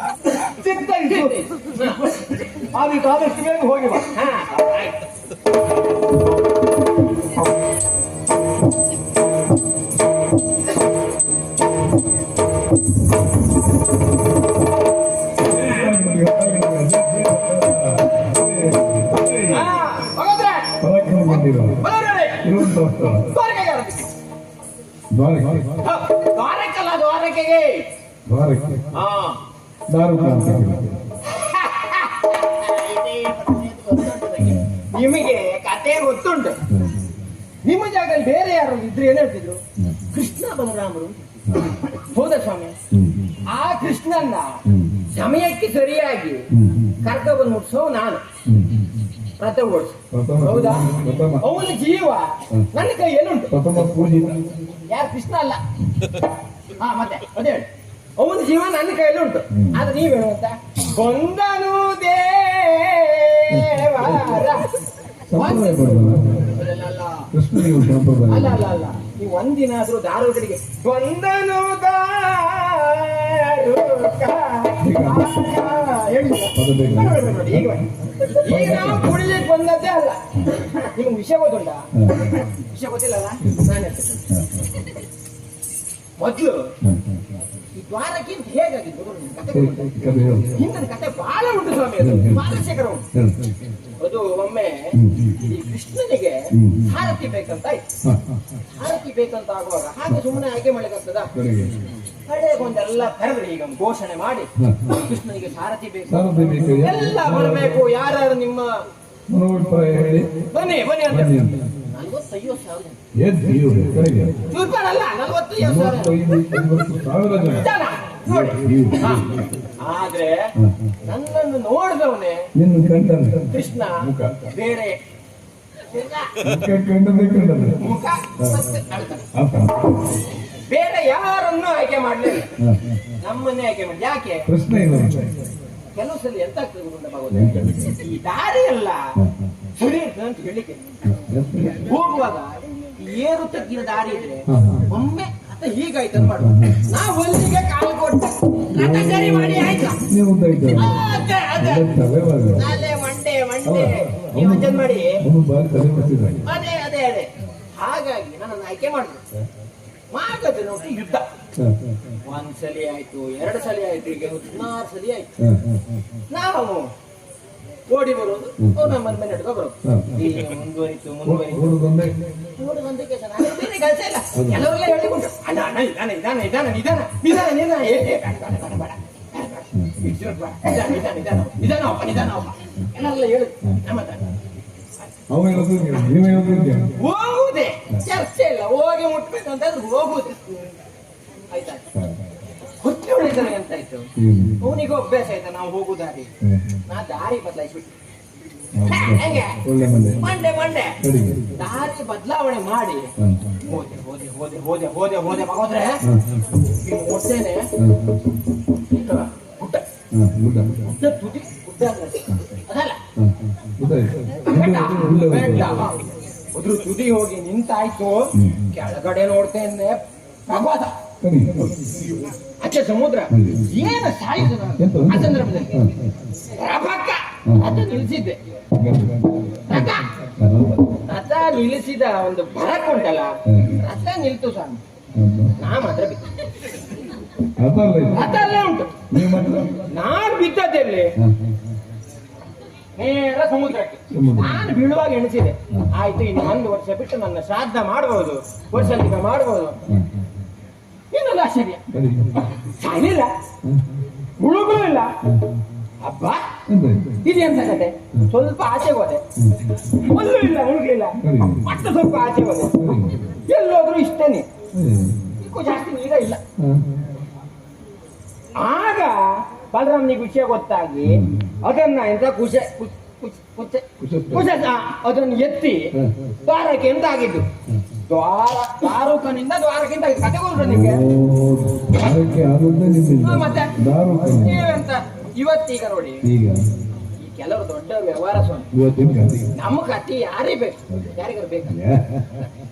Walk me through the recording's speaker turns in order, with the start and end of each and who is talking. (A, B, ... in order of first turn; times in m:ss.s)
0:00.4-0:04.1 A
0:01.1-0:02.1 B
0:04.1-0:05.0 B
0:15.5-0:19.7 C
0:15.5-0:15.9 B
0:19.4-0:20.7 B
0:20.8-0:21.8 C
0:21.8-0:22.4 B
0:22.4-0:23.3 C
0:23.2-0:24.0 B
0:25.1-0:25.8 C
0:25.8-0:27.9 B
0:28.3-0:28.9 C
0:28.9-0:29.4 B
0:29.9-0:31.0 C
0:31.2-0:36.6 B
0:34.4-0:34.7 C
0:36.7-0:37.0 C
0:37.6-0:39.6 B
0:40.1-0:42.8 B
0:42.9-0:43.4 C
0:43.4-0:44.6 B
0:44.7-0:45.0 C
0:45.1-0:46.5 B
0:46.5-0:47.0 C
0:47.0-0:48.2 B
0:48.4-0:49.0 C
0:49.4-0:53.5 B
0:50.1-0:51.4 C
0:53.5-0:54.5 C
0:54.9-0:55.6 B
0:56.8-0:57.7 B
0:58.2-1:04.7 B
1:03.5-1:04.4 C
1:05.3-1:06.5 C
1:05.4-1:05.9 B
1:06.4-1:07.3 B
1:07.3-1:08.6 C
1:08.3-1:24.3 B
1:14.8-1:15.3 C
1:16.5-1:19.1 C
1:21.9-1:22.4 C
1:24.3-1:24.7 C
1:26.2-1:26.7 B
1:26.8-1:27.2 C
1:27.8-1:29.9 B
1:29.5-1:30.6 C
1:30.5-1:33.0 B
1:32.0-1:32.6 C
1:33.1-1:33.6 C
1:34.0-1:37.8 B
1:34.9-1:35.4 C
1:36.5-1:36.9 C
1:38.0-1:38.3 C
1:38.8-1:41.3 B
1:41.3-1:41.8 C
1:42.2-1:48.8 B
1:44.6-1:44.9 C
1:46.1-1:47.8 C
1:49.3-1:50.3 C
1:50.5-1:53.0 B
1:51.1-1:51.6 C
1:53.1-1:54.4 C
1:54.5-1:56.4 B
1:55.6-1:57.7 C
1:57.4-2:00.5 B
1:58.3-1:59.6 C
2:00.6-2:00.9 C
2:01.0-2:02.5 B
2:02.5-2:04.5 C
2:03.5-2:05.0 B
2:05.9-2:06.3 B
2:06.4-2:07.8 C
2:07.8-2:09.2 B
2:09.3-2:10.2 C
2:10.7-2:12.5 B
2:12.6-2:13.0 C
2:13.2-2:14.5 B
2:14.5-2:15.4 C
2:15.9-2:19.1 B
2:17.3-2:18.0 C
2:19.2-2:19.5 C
2:19.8-2:20.8 B
2:21.0-2:21.9 C
2:21.8-2:30.0 B
2:24.5-2:24.9 C
2:26.1-2:26.8 C
2:28.7-2:32.6 C
2:30.8-2:31.9 B
2:32.6-2:35.2 B
2:33.6-2:36.4 C
2:36.4-2:39.2 B
2:40.1-2:41.3 B
2:41.6-2:42.1 C
2:42.2-2:45.3 B
2:45.4-2:45.8 C
2:46.3-2:46.9 B
2:47.9-2:51.7 B
2:49.8-2:50.1 C
2:51.2-2:52.1 C
2:52.6-3:04.2 B
2:54.3-2:54.6 C
2:59.7-3:00.2 C
3:05.3-3:06.9 C
3:07.0-3:10.8 B
3:11.5-3:11.8 B
3:11.9-3:12.2 C
3:12.8-3:14.1 B
3:14.2-3:14.7 C
3:14.6-3:16.3 B
3:16.4-3:16.8 C
3:16.9-3:17.9 B
3:18.7-3:20.2 C
3:18.9-3:19.6 B
3:20.2-3:21.0 B
3:21.0-3:21.5 C
3:21.6-3:23.1 B
3:23.2-3:23.6 C
3:23.6-3:26.0 B
3:26.0-3:26.6 C
3:26.7-3:27.7 B
3:27.8-3:28.2 C
3:28.8-3:29.8 B
3:30.1-3:30.8 C
3:30.8-3:33.0 B
3:33.2-3:35.8 C
3:34.4-3:41.0 B
3:38.3-3:38.7 C
3:41.2-3:42.0 C
3:42.6-3:45.9 B
3:43.3-3:43.7 C
3:44.8-3:46.1 C
3:46.5-3:48.4 B
3:48.8-3:51.0 C
3:49.7-3:50.1 B
3:51.0-3:54.8 B
3:53.5-3:53.7 C
3:55.2-3:55.5 C
3:55.6-3:56.3 B
3:57.6-3:58.3 C
3:58.1-3:58.9 B
3:59.1-3:59.8 C
3:59.9-4:01.1 B
4:01.2-4:01.6 C
4:03.0-4:09.8 B
4:04.1-4:04.7 C
4:08.8-4:09.0 C
4:09.9-4:10.2 C
4:11.1-4:11.8 B
4:11.9-4:12.5 C
4:12.6-4:13.3 B
4:13.6-4:13.9 C
4:14.4-4:15.1 B
4:15.2-4:15.6 C
4:16.0-4:16.4 B
4:16.7-4:17.2 C
4:17.2-4:19.2 B
4:19.4-4:19.8 C
4:19.9-4:22.8 B
4:21.2-4:21.7 C
4:22.8-4:23.2 C
4:23.5-4:24.5 B
4:24.7-4:25.3 C
4:25.4-4:26.4 B
4:26.6-4:26.9 C
4:28.6-4:35.9 B
4:31.0-4:31.5 C
4:34.0-4:34.5 C
4:36.4-4:37.5 B
4:38.1-4:41.0 B
4:40.6-4:44.8 C
4:43.2-4:46.2 B
4:46.2-4:46.7 C
4:47.2-4:48.7 B
4:48.7-4:49.5 C
4:49.5-4:51.8 B
4:51.7-4:52.4 C